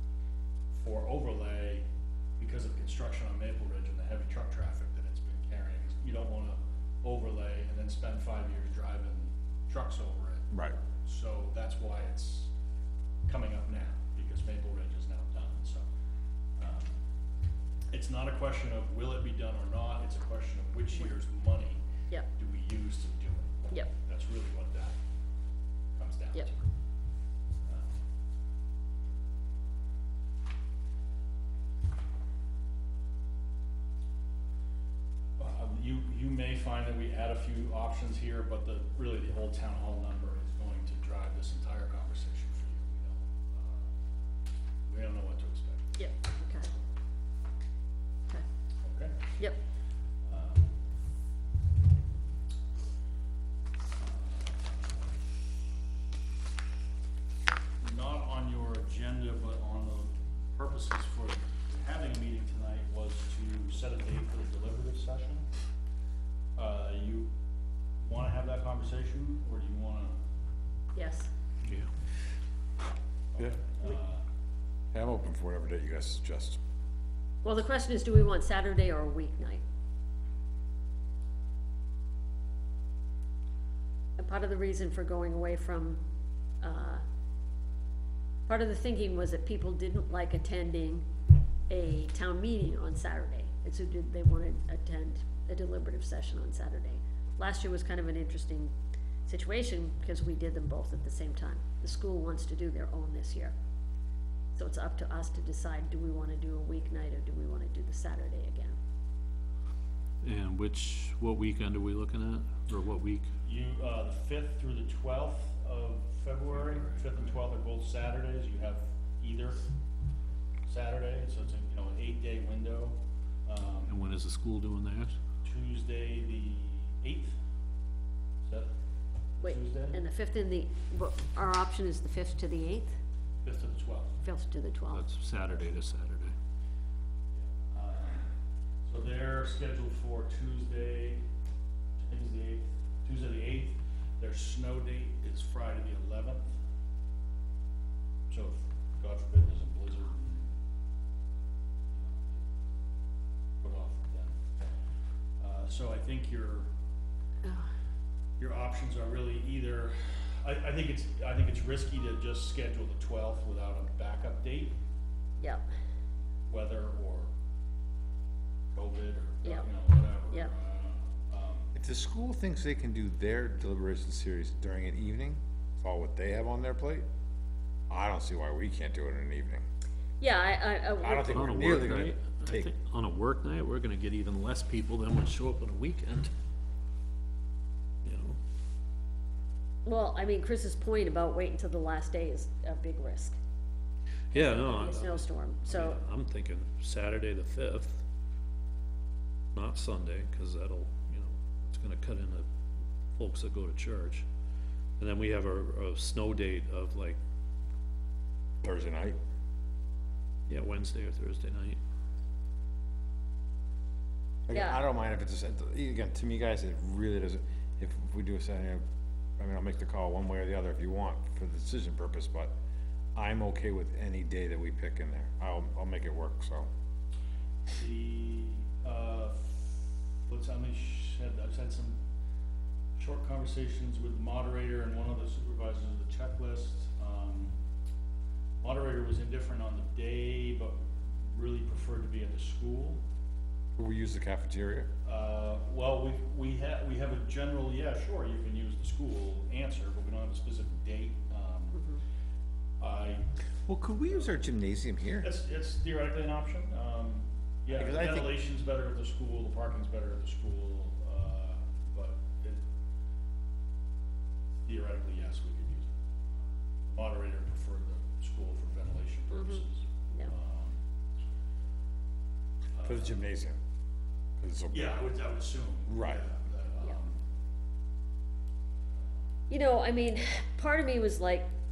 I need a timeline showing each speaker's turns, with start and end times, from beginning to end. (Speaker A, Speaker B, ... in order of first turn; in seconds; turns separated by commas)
Speaker A: 0.7-1.8, Speaker A: 2.4-12.5, Speaker B: 10.5-10.8, Speaker A: 13.2-15.8, Speaker A: 16.6-16.9, Speaker A: 17.9-21.8, Speaker A: 22.3-25.0, Speaker A: 25.9-26.6, Speaker A: 27.6-27.9, Speaker A: 35.4-43.9, Speaker A: 44.9-46.0, Speaker C: 46.0-46.7, Speaker A: 48.8-49.3, Speaker A: 50.2-50.7, Speaker A: 54.0-54.8, Speaker A: 57.8-65.4, Speaker A: 66.5-67.3, Speaker A: 68.0-70.2, Speaker C: 70.9-71.3, Speaker A: 73.3-74.2, Speaker B: 74.9-76.6, Speaker C: 77.4-79.6, Speaker C: 84.2-86.0, Speaker C: 86.6-87.0, Speaker C: 88.5-91.1, Speaker C: 91.7-98.7, Speaker C: 99.2-103.5, Speaker C: 104.5-108.8, Speaker D: 110.2-113.3, Speaker A: 113.4-119.6, Speaker A: 120.7-123.9, Speaker D: 123.9-125.1, Speaker A: 125.4-127.4, Speaker A: 128.4-128.7, Speaker A: 129.4-130.0, Speaker C: 129.4-132.9, Speaker A: 133.4-134.2, Speaker C: 134.2-135.0, Speaker D: 134.9-136.3, Speaker A: 137.3-138.3, Speaker A: 138.8-141.2, Speaker A: 142.0-146.5, Speaker A: 148.3-150.5, Speaker A: 151.9-152.4, Speaker A: 153.6-154.4, Speaker A: 155.4-156.7, Speaker A: 158.4-164.8, Speaker A: 166.5-167.3, Speaker A: 168.7-171.7, Speaker B: 171.7-177.1, Speaker B: 177.9-179.6, Speaker C: 180.2-181.9, Speaker B: 181.0-182.7, Speaker D: 181.2-186.3, Speaker D: 188.0-188.4, Speaker C: 189.8-193.4, Speaker D: 194.3-198.0, Speaker C: 194.3-196.0, Speaker D: 199.5-202.5, Speaker D: 203.2-204.2, Speaker D: 205.0-207.2, Speaker B: 208.6-209.2, Speaker D: 210.5-211.8, Speaker B: 214.5-218.8, Speaker C: 214.5-214.8, Speaker B: 219.4-222.5, Speaker B: 223.1-226.7, Speaker A: 227.7-232.0, Speaker A: 233.0-237.6, Speaker A: 238.6-243.0, Speaker B: 243.8-244.9, Speaker A: 245.0-251.8, Speaker A: 252.8-253.3, Speaker B: 253.7-255.3, Speaker A: 254.1-254.4, Speaker A: 255.2-262.6, Speaker B: 257.7-258.4, Speaker A: 264.6-265.9, Speaker A: 266.4-270.8, Speaker C: 269.3-270.3, Speaker A: 272.7-273.2, Speaker B: 272.8-273.6, Speaker B: 274.4-275.0, Speaker A: 274.7-277.2, Speaker B: 275.9-276.2, Speaker C: 279.5-281.5